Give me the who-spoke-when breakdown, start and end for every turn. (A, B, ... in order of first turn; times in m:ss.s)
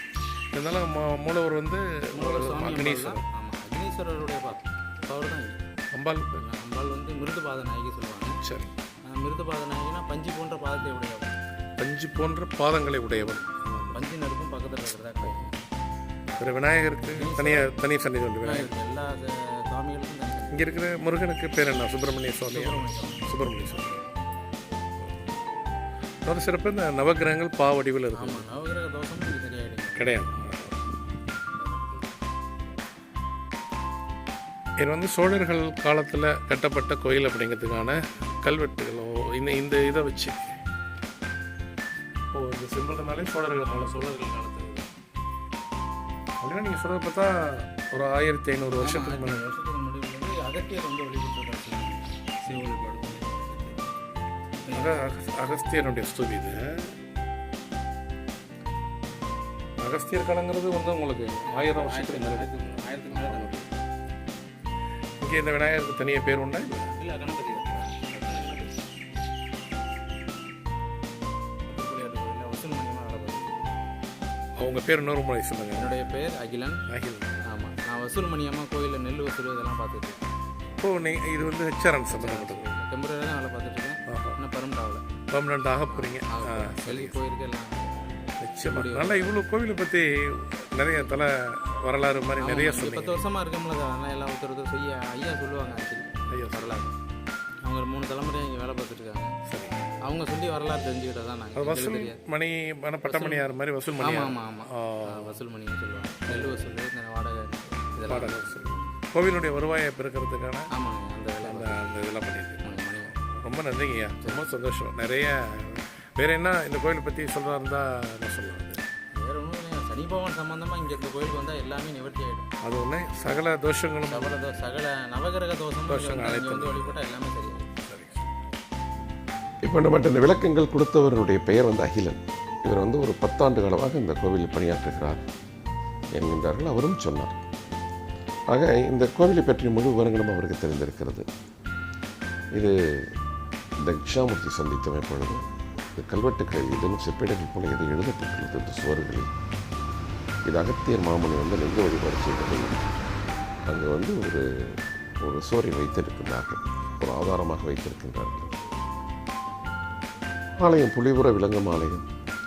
0:00.5-0:03.2 A
0:02.1-0:05.6 B
0:05.9-0:06.5 A
0:06.4-0:08.4 B
0:08.4-0:08.7 A
0:09.0-0:11.4 B
0:11.8-0:14.1 A
0:13.9-0:15.5 B
0:15.2-0:15.5 A
0:16.4-0:18.7 A
0:17.1-0:17.7 B
0:18.4-0:20.6 B
0:20.5-0:24.0 A
0:22.5-0:23.3 B
0:26.2-0:28.5 A
0:28.1-0:30.2 B
0:30.0-0:30.8 A
0:31.5-0:32.0 B
0:34.8-0:40.5 A
0:42.3-0:44.3 A
0:43.6-0:44.9 B
0:46.4-0:49.4 A
0:48.8-0:53.8 B
0:54.6-0:55.0 B
0:54.7-0:57.0 A
0:59.8-1:02.5 A
1:01.5-1:03.8 B
1:03.1-1:03.6 A
1:05.2-1:06.9 A
1:06.9-1:08.8 B
1:11.7-1:13.5 B
1:14.6-1:16.0 A
1:15.7-1:16.8 B
1:16.9-1:17.6 A
1:17.4-1:20.2 B
1:20.8-1:22.6 A
1:22.1-1:25.0 B
1:24.1-1:24.4 A
1:25.3-1:27.3 A
1:25.9-1:27.9 B
1:28.4-1:33.3 A
1:28.7-1:29.3 B
1:32.4-1:37.0 B
1:36.3-1:36.8 A
1:37.6-1:39.4 B
1:39.5-1:39.9 A
1:40.0-1:42.2 B
1:41.5-1:45.4 A
1:43.0-1:43.4 B
1:44.0-1:48.8 B
1:46.2-1:46.7 A
1:48.0-1:50.7 A
1:50.7-1:51.8 B
1:51.4-1:58.8 A
1:52.6-1:53.1 B
1:54.2-1:54.5 B
1:59.1-2:02.5 B
2:02.6-2:04.4 A
2:04.1-2:07.7 B
2:05.9-2:07.1 A
2:07.7-2:08.3 A
2:09.6-2:15.2 C
2:16.1-2:17.4 C
2:18.5-2:21.3 C
2:22.6-2:23.1 C
2:23.8-2:25.4 C
2:26.0-2:29.3 C
2:30.4-2:32.8 C
2:33.7-2:38.5 C
2:40.6-2:42.1 C